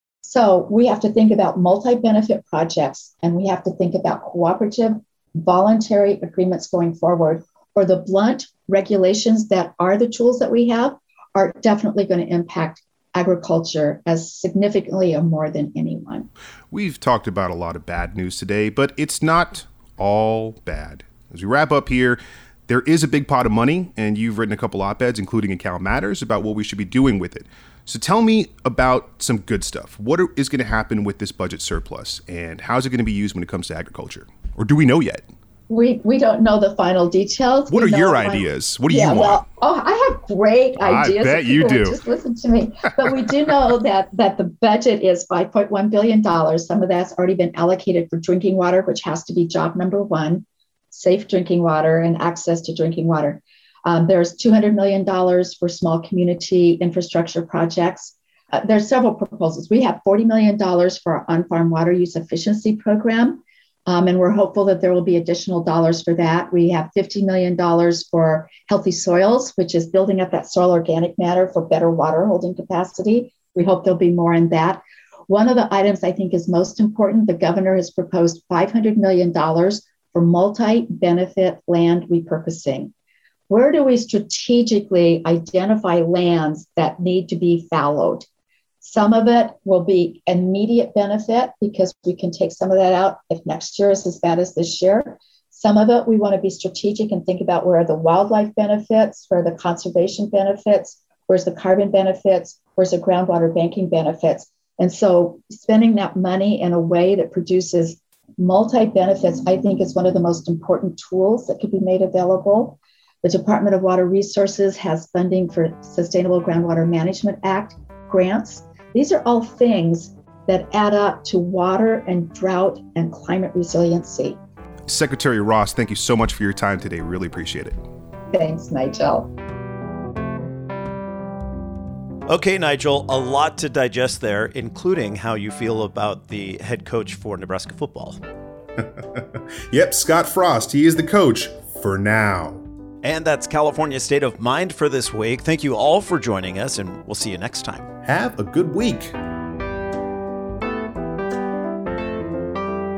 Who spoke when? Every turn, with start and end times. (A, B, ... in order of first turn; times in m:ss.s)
0:00.2-0:16.3 A
0:16.7-0:35.3 B
0:35.7-1:22.9 A
0:37.7-0:39.4 B
0:40.8-0:42.0 B
1:23.5-1:28.3 A
1:28.8-2:04.4 A
2:04.9-2:07.8 B
2:08.3-2:09.3 A
2:12.3-2:18.2 C
2:18.8-2:22.6 B
2:23.0-2:27.9 C
2:28.0-2:29.2 B